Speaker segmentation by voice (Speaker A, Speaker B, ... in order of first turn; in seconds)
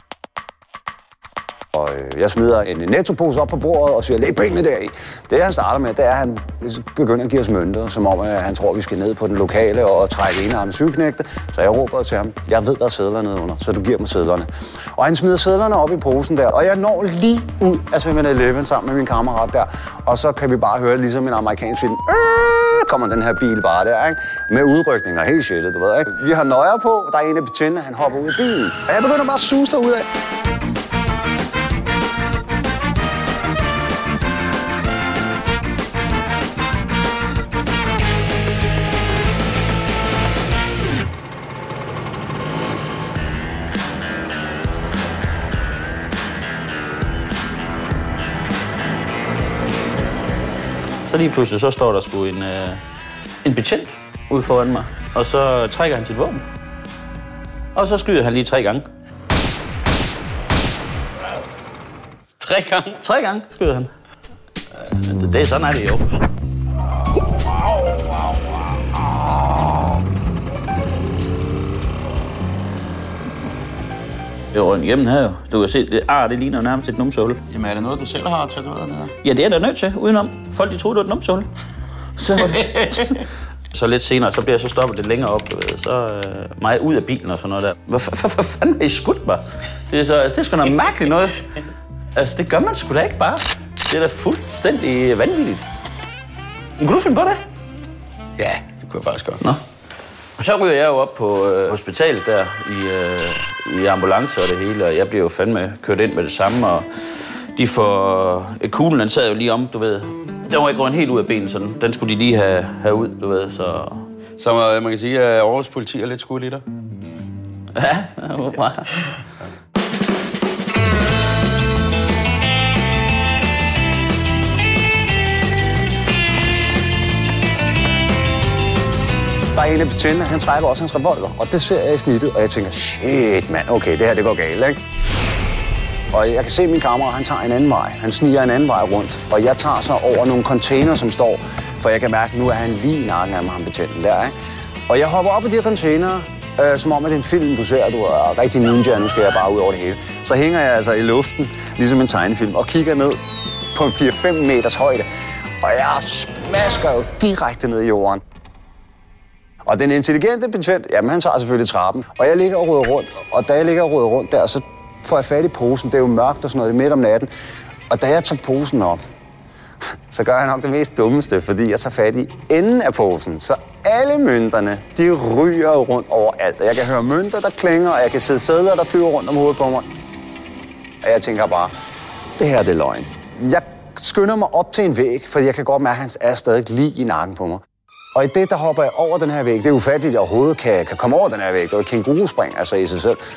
Speaker A: 1.7-30.1, 129.5-134.8, 136.1-144.3, 144.9-155.1, 155.6-158.2, 159.7-167.3, 167.9-169.0, 170.1-179.9, 181.0-181.7, 182.4-187.6, 188.2-193.2
Speaker B: 51.1-52.8, 53.4-56.4, 57.8-58.9, 63.0-63.9, 65.0-66.3, 74.5-77.4, 79.2-81.5, 82.2-83.2, 83.7-91.4, 92.2-95.7, 96.8-97.4, 100.4-114.1, 117.8-118.9
Speaker C: 62.4-63.0, 77.5-79.1, 82.4-83.2, 98.4-99.4, 114.4-116.6